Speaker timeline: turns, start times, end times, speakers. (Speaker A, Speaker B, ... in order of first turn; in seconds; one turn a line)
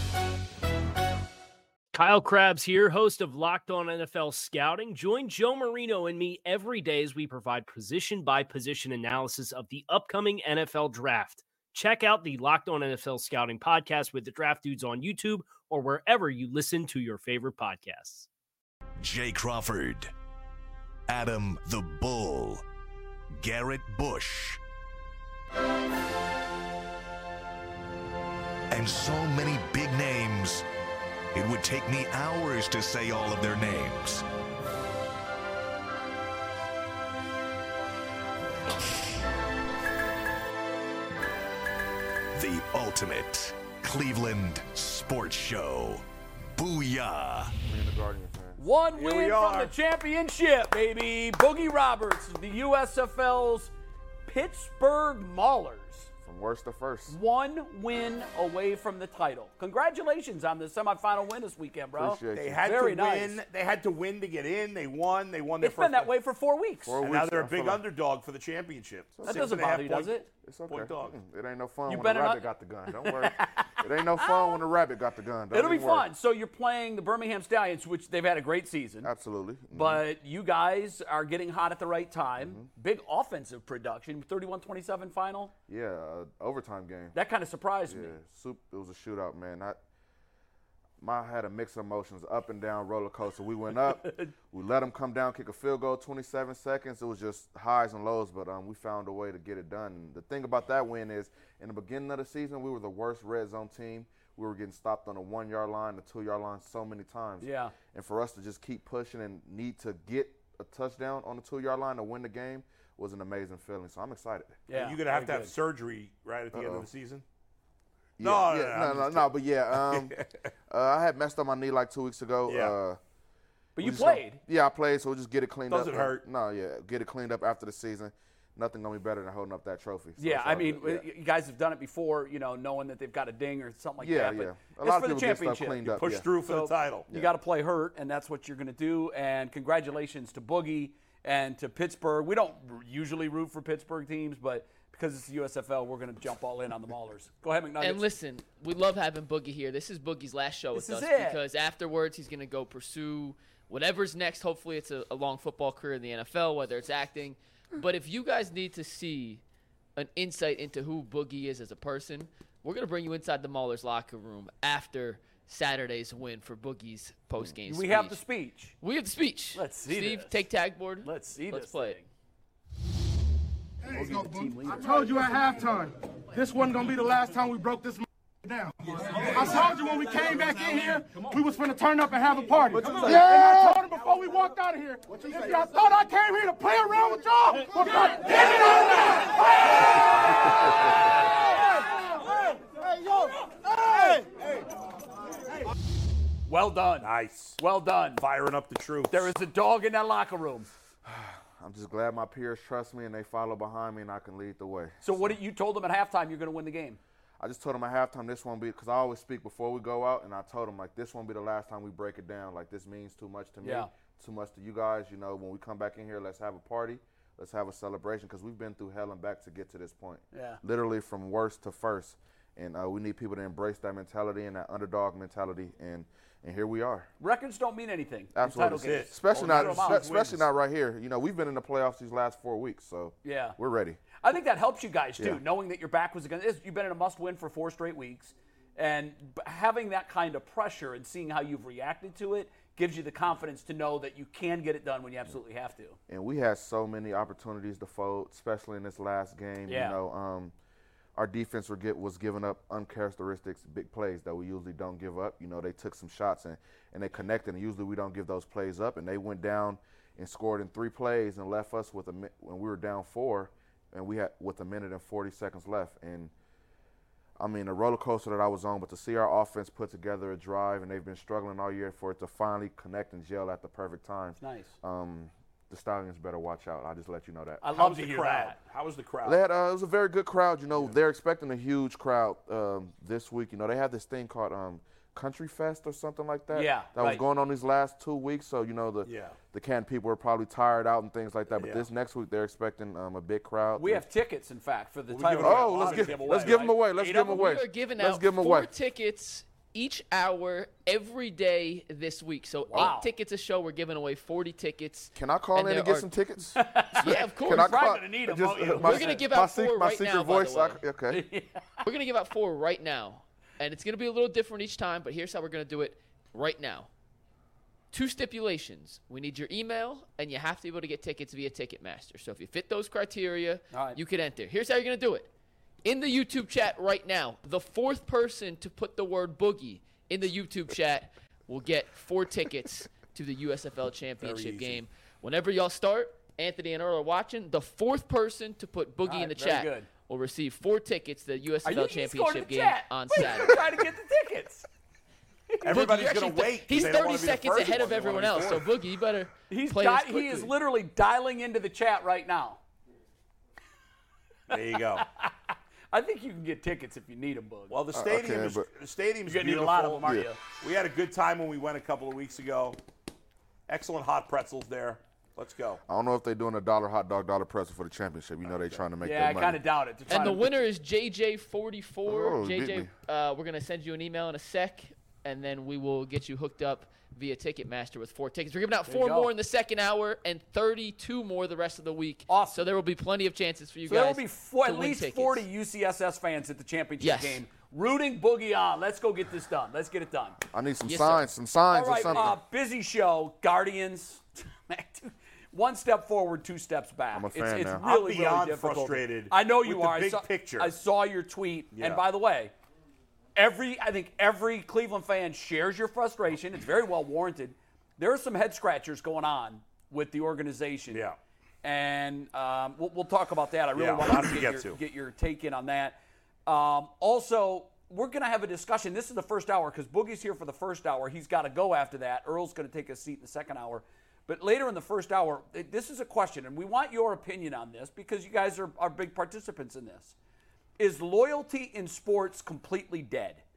Speaker A: 1.9-18.3
Speaker B: 19.0-20.1
Speaker B: 21.1-22.6
Speaker B: 23.3-24.6
Speaker B: 28.7-30.6
Speaker B: 31.3-34.2
Speaker B: 42.3-46.0
Speaker B: 46.5-47.5
Speaker C: 47.6-48.6
Speaker D: 48.6-53.7
Speaker E: 48.9-49.7
Speaker D: 54.2-56.1
Speaker C: 56.2-57.2
Speaker D: 57.1-63.4
Speaker C: 62.0-62.7
Speaker E: 62.3-66.1
Speaker D: 65.6-67.0
Speaker C: 66.8-67.8
Speaker E: 67.0-70.1
Speaker C: 69.2-69.5
Speaker D: 69.2-70.3
Speaker C: 70.4-76.1
Speaker E: 70.7-71.1
Speaker D: 71.9-74.6
Speaker D: 75.5-79.1
Speaker C: 79.0-80.0
Speaker D: 79.7-85.5
Speaker C: 82.4-82.7
Speaker C: 85.7-87.2
Speaker D: 87.1-88.1
Speaker C: 87.8-89.8
Speaker C: 91.0-114.6
Speaker D: 94.0-94.3
Speaker D: 107.4-107.7
Speaker D: 114.7-115.5
Speaker E: 114.7-117.2
Speaker C: 116.5-116.8
Speaker C: 118.2-120.2
Speaker E: 118.2-120.5
Speaker C: 120.7-123.0
Speaker E: 122.5-122.7
Speaker D: 123.7-124.4
Speaker C: 123.8-131.0
Speaker E: 125.7-126.2
Speaker D: 130.2-148.0
Speaker C: 134.0-136.3
Speaker E: 135.9-137.1
Speaker F: 147.8-159.4
Speaker D: 150.7-151.4
Speaker F: 159.9-168.2
Speaker D: 167.6-168.8
Speaker F: 168.8-172.0
Speaker D: 169.5-170.5
Speaker D: 171.0-172.1
Speaker D: 173.9-174.9
Speaker G: 174.1-189.3
Speaker D: 196.5-198.2
Speaker E: 197.0-197.6
Speaker E: 198.2-199.3
Speaker D: 199.1-200.7
Speaker C: 201.0-205.3
Speaker D: 205.0-207.0
Speaker C: 207.4-227.1
Speaker D: 213.6-213.9
Speaker D: 220.3-220.6
Speaker D: 227.2-230.1
Speaker C: 228.3-234.0
Speaker E: 228.6-230.5
Speaker D: 233.2-233.6
Speaker D: 234.2-246.0
Speaker C: 246.1-250.5
Speaker D: 249.7-250.0
Speaker C: 251.2-266.3
Speaker C: 267.4-277.6
Speaker D: 274.4-274.7
Speaker D: 277.6-278.6
Speaker E: 277.7-279.4
Speaker C: 279.2-294.0
Speaker D: 286.5-287.2
Speaker E: 289.0-289.4
Speaker E: 291.6-291.9
Speaker D: 293.8-297.0
Speaker E: 295.1-296.6
Speaker C: 295.4-298.7
Speaker F: 297.0-306.1
Speaker D: 302.7-303.1
Speaker C: 305.1-311.2
Speaker D: 306.6-309.3
Speaker F: 307.0-307.9
Speaker F: 308.8-310.8
Speaker D: 311.1-311.7
Speaker F: 311.8-316.9
Speaker F: 317.9-325.3
Speaker D: 323.7-324.0
Speaker F: 325.8-343.6
Speaker E: 334.2-334.8
Speaker D: 339.0-339.9
Speaker D: 341.6-344.6
Speaker D: 345.5-345.8
Speaker E: 345.6-348.7
Speaker F: 345.7-350.5
Speaker D: 349.5-352.6
Speaker E: 354.5-355.1
Speaker D: 354.5-357.8
Speaker E: 357.7-362.8
Speaker C: 357.9-358.7
Speaker D: 359.2-360.4
Speaker E: 363.7-365.8
Speaker C: 365.9-369.6
Speaker D: 369.0-370.5
Speaker F: 370.1-385.4
Speaker C: 372.1-372.9
Speaker D: 378.9-379.3
Speaker D: 382.3-382.6
Speaker D: 383.9-390.4
Speaker F: 387.0-387.4
Speaker C: 390.5-392.4
Speaker F: 390.8-391.2
Speaker D: 391.7-402.5
Speaker C: 397.1-397.8
Speaker E: 397.8-400.7
Speaker E: 401.7-402.0
Speaker D: 403.3-411.0
Speaker E: 410.9-411.2
Speaker D: 411.6-430.1
Speaker E: 413.7-414.8
Speaker D: 430.8-433.4